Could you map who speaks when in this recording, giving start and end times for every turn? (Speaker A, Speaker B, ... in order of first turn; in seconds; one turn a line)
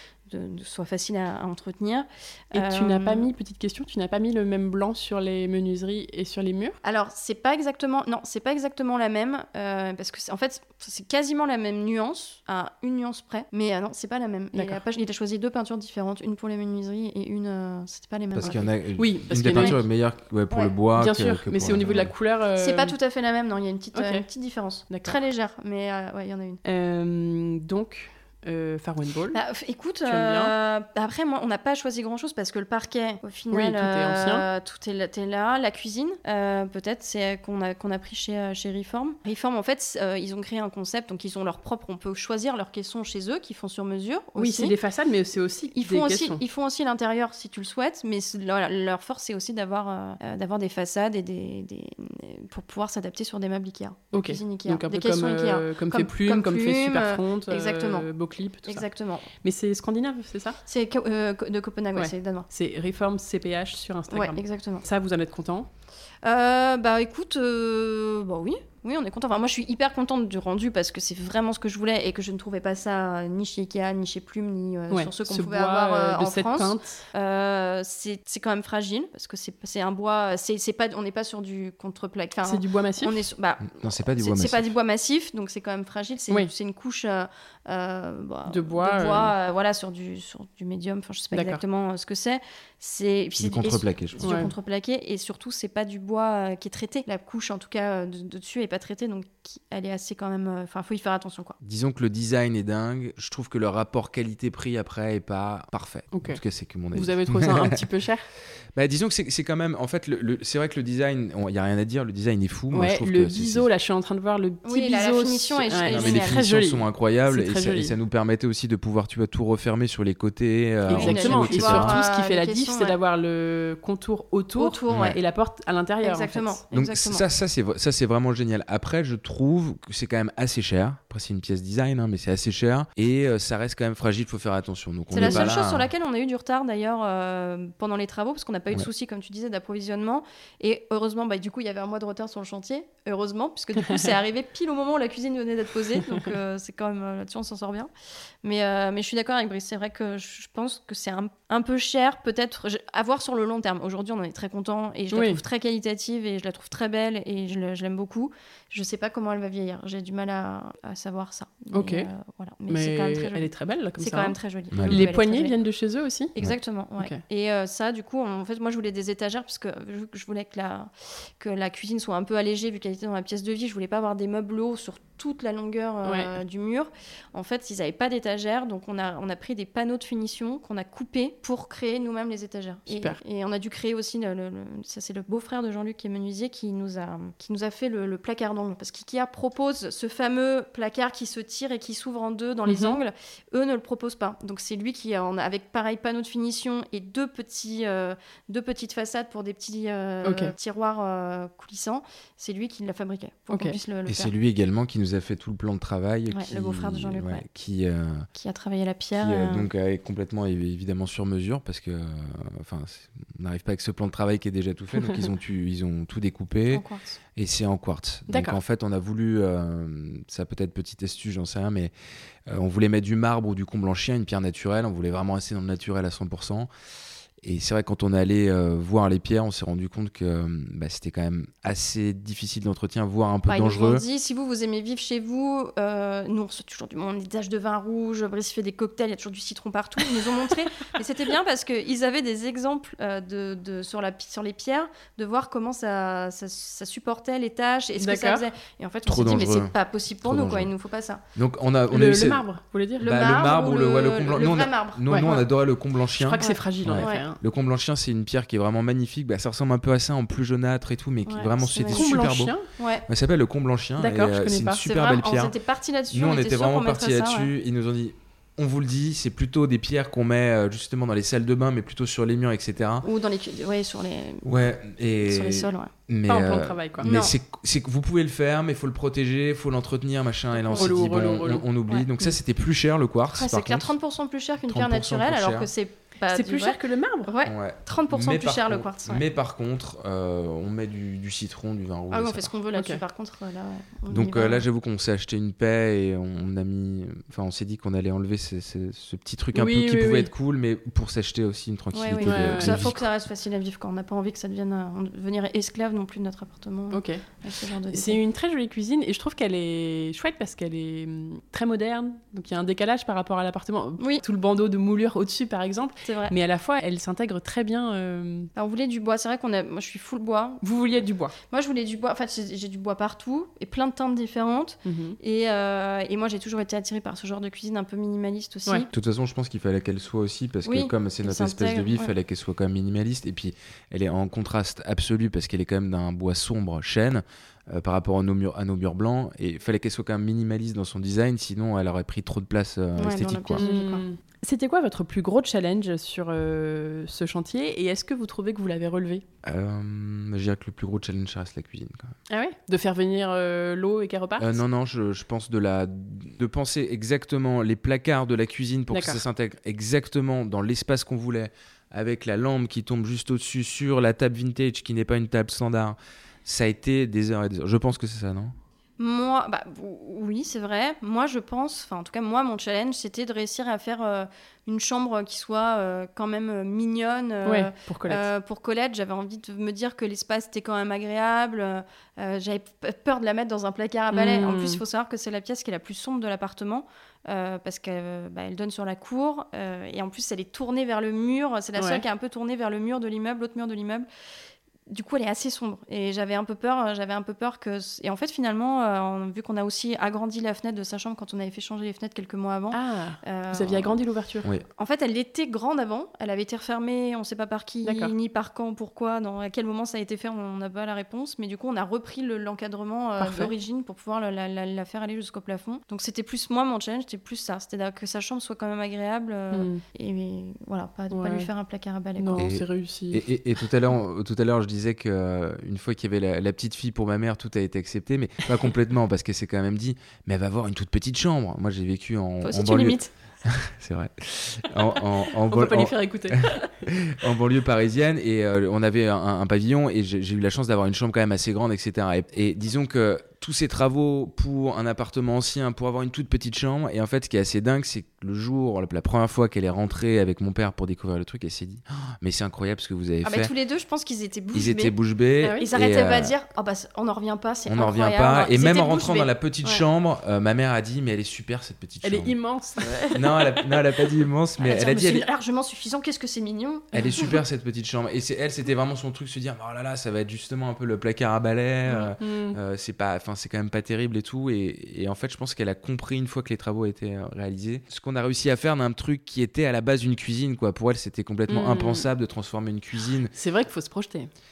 Speaker A: 0.3-3.3
Speaker B: 2.5-6.8
Speaker A: 6.8-18.7
Speaker B: 14.5-14.8
Speaker C: 18.3-22.1
Speaker B: 18.4-19.8
Speaker A: 19.4-19.8
Speaker B: 20.9-22.9
Speaker A: 21.8-26.6
Speaker B: 23.9-24.3
Speaker B: 24.9-25.2
Speaker B: 26.6-29.4
Speaker A: 29.3-44.7
Speaker B: 30.0-30.5
Speaker B: 33.5-34.5
Speaker B: 44.4-46.4
Speaker A: 45.7-58.1
Speaker B: 54.1-58.8
Speaker A: 58.6-59.3
Speaker B: 59.4-60.6
Speaker A: 60.6-62.5
Speaker B: 61.9-65.7
Speaker A: 64.1-64.8
Speaker A: 66.2-101.6
Speaker B: 74.9-77.0
Speaker B: 82.5-83.2
Speaker C: 83.7-84.6
Speaker B: 88.5-89.3
Speaker B: 91.3-91.6
Speaker C: 93.4-94.5
Speaker B: 94.2-94.5
Speaker C: 101.6-107.8
Speaker B: 106.1-106.4
Speaker B: 106.9-108.3
Speaker C: 108.7-113.7
Speaker B: 112.7-117.9
Speaker A: 114.6-116.4
Speaker C: 115.8-122.0
Speaker A: 120.9-123.0
Speaker B: 120.9-126.6
Speaker A: 124.6-125.2
Speaker C: 124.9-125.2
Speaker A: 126.0-127.2
Speaker C: 126.7-135.9
Speaker A: 135.1-147.9
Speaker B: 135.1-135.5
Speaker A: 148.4-165.5
Speaker B: 155.1-155.4
Speaker B: 161.7-162.1
Speaker B: 162.7-166.3
Speaker C: 164.7-165.1
Speaker A: 166.3-204.3
Speaker B: 176.0-176.3
Speaker B: 182.9-183.2
Speaker B: 192.7-193.0
Speaker B: 200.2-200.5
Speaker C: 204.1-208.3
Speaker A: 206.3-207.4
Speaker A: 208.3-209.7
Speaker C: 209.2-216.8
Speaker B: 214.9-215.2
Speaker A: 216.7-217.2
Speaker C: 217.3-221.9
Speaker B: 218.3-218.6
Speaker C: 222.5-226.7
Speaker C: 227.4-234.0
Speaker A: 233.4-251.2
Speaker B: 248.0-248.4
Speaker C: 249.1-250.7
Speaker C: 251.3-252.4
Speaker B: 251.9-253.1
Speaker A: 253.0-255.4
Speaker C: 253.0-262.6
Speaker B: 255.1-255.4
Speaker B: 256.2-257.4
Speaker A: 256.4-257.2
Speaker A: 261.3-262.1
Speaker B: 261.9-262.7
Speaker A: 262.7-263.0
Speaker C: 263.1-265.5
Speaker B: 264.0-264.8
Speaker A: 264.8-267.5
Speaker C: 266.1-273.1
Speaker A: 273.0-274.5
Speaker C: 274.4-283.9
Speaker A: 275.2-275.9
Speaker B: 276.3-277.1
Speaker A: 277.0-277.3
Speaker A: 280.6-280.9
Speaker B: 280.7-281.7
Speaker A: 283.4-289.3
Speaker C: 284.7-285.7
Speaker B: 286.3-287.3
Speaker C: 287.4-292.5
Speaker A: 292.1-294.6
Speaker B: 292.7-293.0
Speaker C: 294.1-303.1
Speaker B: 299.5-300.3
Speaker A: 301.9-308.2
Speaker B: 302.2-302.9
Speaker B: 306.9-307.2
Speaker B: 307.9-318.5
Speaker A: 316.1-316.3
Speaker A: 318.6-320.6
Speaker B: 320.6-321.4
Speaker A: 321.4-328.9
Speaker B: 324.8-325.1
Speaker C: 328.9-343.6
Speaker A: 330.6-332.1
Speaker A: 343.0-344.0
Speaker B: 343.6-349.2
Speaker C: 349.4-352.1
Speaker B: 352.3-354.6
Speaker C: 354.4-368.5
Speaker B: 358.9-359.2
Speaker A: 369.0-394.1
Speaker B: 377.4-378.2
Speaker B: 384.1-384.8
Speaker B: 391.8-392.0
Speaker A: 394.9-404.0
Speaker B: 402.7-404.5
Speaker A: 404.7-422.4
Speaker B: 407.8-408.1
Speaker B: 413.2-413.5
Speaker B: 419.5-419.8
Speaker B: 421.1-421.5
Speaker B: 422.2-423.2
Speaker C: 422.4-453.5
Speaker A: 432.4-433.1
Speaker B: 435.4-436.6
Speaker A: 453.2-459.8
Speaker C: 454.5-456.3
Speaker B: 455.4-455.7
Speaker C: 457.7-462.4
Speaker B: 462.0-463.2
Speaker A: 462.8-463.4
Speaker C: 463.1-465.3
Speaker A: 464.6-467.4
Speaker C: 466.9-483.3
Speaker B: 467.0-467.3
Speaker B: 472.2-472.6
Speaker B: 481.5-482.1
Speaker B: 483.3-484.3